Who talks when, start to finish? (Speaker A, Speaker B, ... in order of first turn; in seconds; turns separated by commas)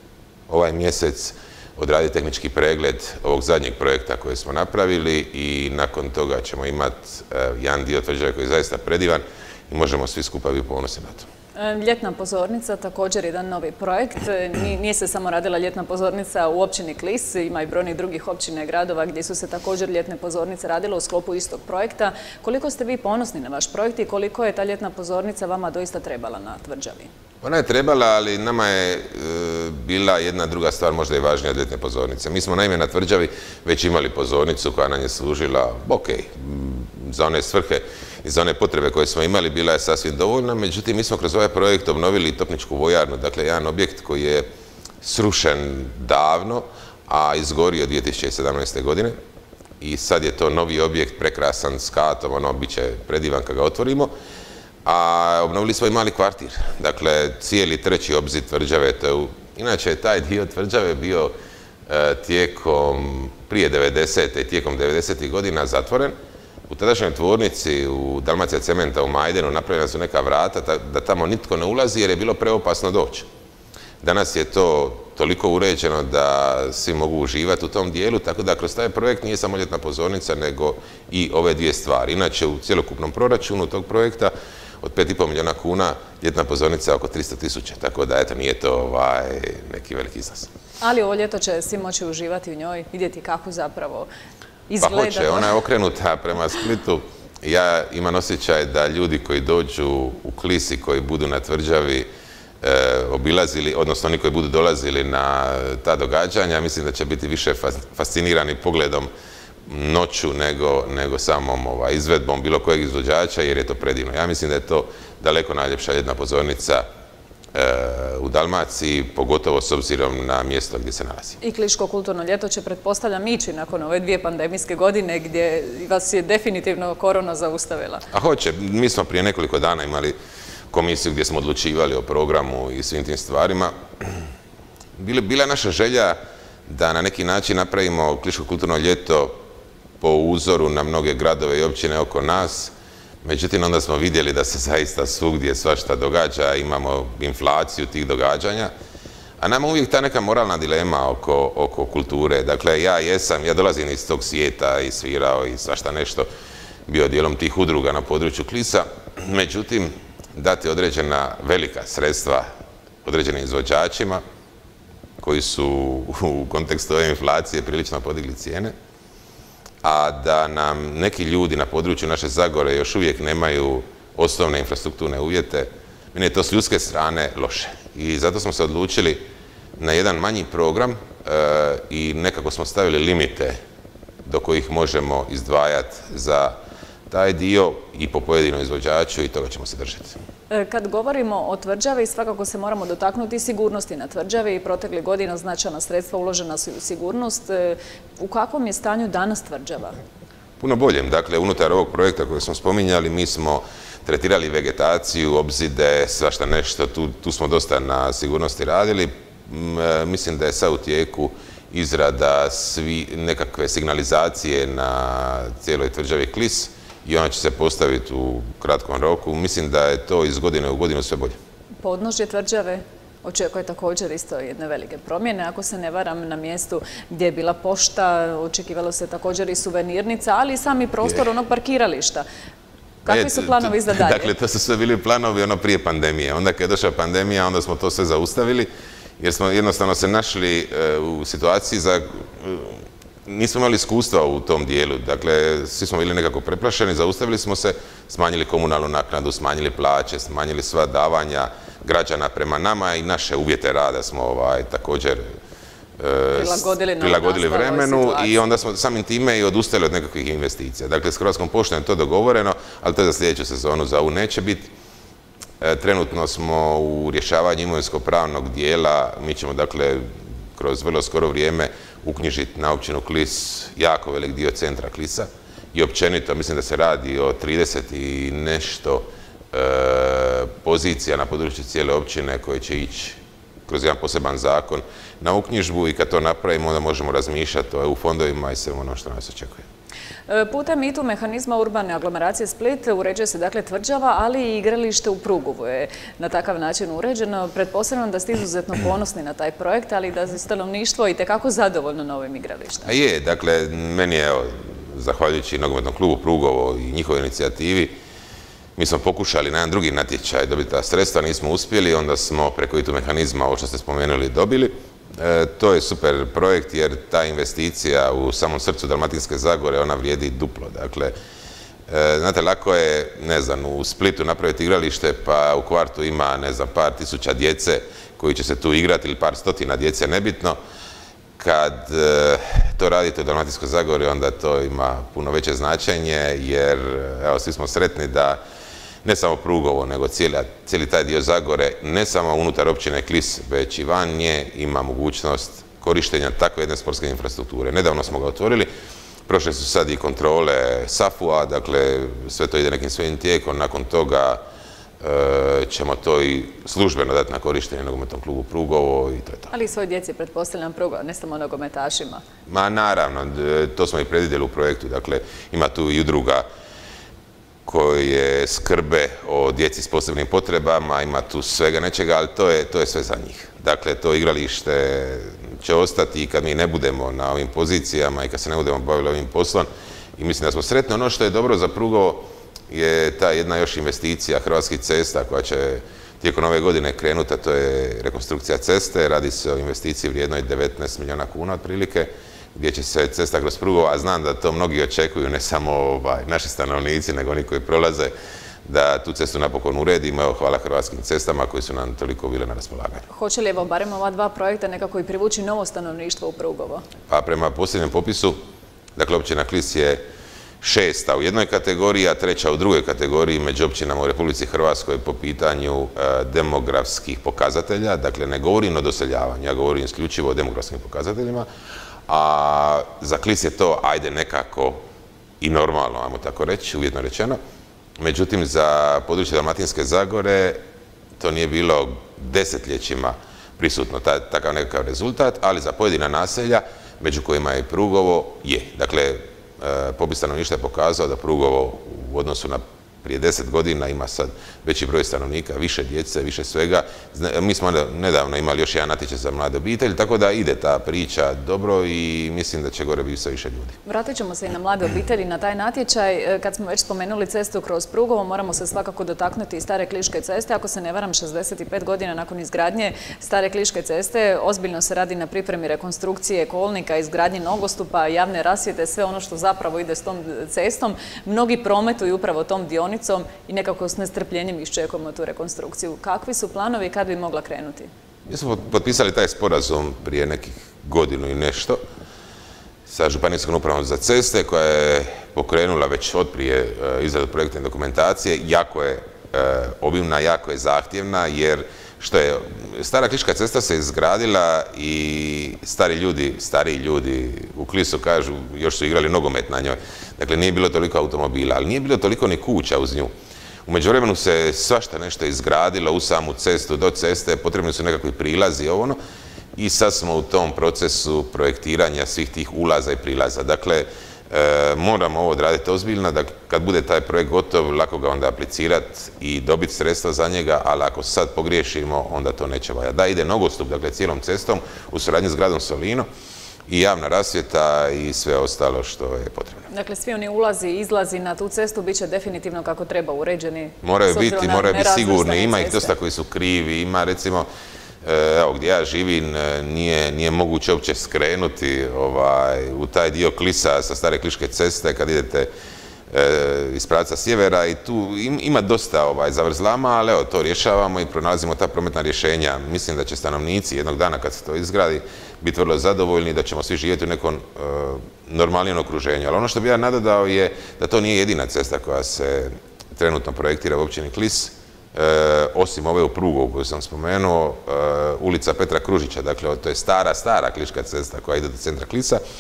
Speaker A: 0.5-11.3, Speaker B: 11.6-27.1, Speaker A: 27.4-44.5, Speaker A: 45.0-49.2, Speaker A: 49.8-54.1, Speaker A: 54.9-61.4, Speaker A: 61.9-66.2, Speaker A: 66.7-73.3, Speaker A: 74.0-90.5, Speaker B: 90.8-94.1, Speaker B: 94.7-95.5, Speaker A: 94.8-102.1, Speaker A: 102.6-109.1, Speaker A: 109.7-116.9, Speaker A: 117.5-121.4, Speaker B: 121.4-128.1, Speaker A: 128.1-130.2, Speaker A: 130.7-134.2, Speaker A: 135.0-139.4, Speaker A: 140.0-148.7, Speaker A: 149.4-156.3, Speaker A: 156.9-162.5, Speaker A: 163.0-164.2, Speaker A: 165.2-168.8, Speaker A: 169.8-179.3, Speaker A: 179.8-183.6, Speaker A: 184.2-186.6, Speaker A: 187.1-190.2, Speaker B: 190.5-200.0, Speaker A: 200.6-221.4, Speaker B: 221.8-232.2, Speaker B: 233.1-234.3, Speaker A: 233.1-255.3, Speaker A: 256.0-264.7, Speaker B: 256.3-258.4, Speaker A: 265.6-289.6, Speaker B: 290.3-302.9, Speaker A: 302.9-308.0, Speaker A: 308.8-321.1, Speaker A: 321.9-330.6, Speaker A: 331.4-338.4, Speaker A: 339.0-348.7, Speaker A: 349.3-354.4, Speaker A: 355.0-359.5, Speaker B: 359.5-362.2, Speaker A: 362.5-366.5, Speaker A: 367.6-398.1, Speaker A: 398.6-403.0, Speaker B: 403.1-406.8, Speaker A: 407.1-408.4, Speaker A: 409.0-410.1, Speaker A: 410.6-421.5, Speaker A: 422.1-424.9, Speaker A: 425.4-427.4, Speaker A: 428.0-430.6, Speaker A: 431.2-453.8, Speaker B: 453.9-477.9, Speaker A: 478.3-481.8, Speaker A: 482.9-503.1, Speaker A: 503.7-509.0, Speaker A: 509.6-526.1, Speaker A: 526.7-529.7, Speaker B: 529.7-535.9, Speaker A: 533.8-537.5, Speaker A: 538.0-545.5, Speaker A: 546.1-572.2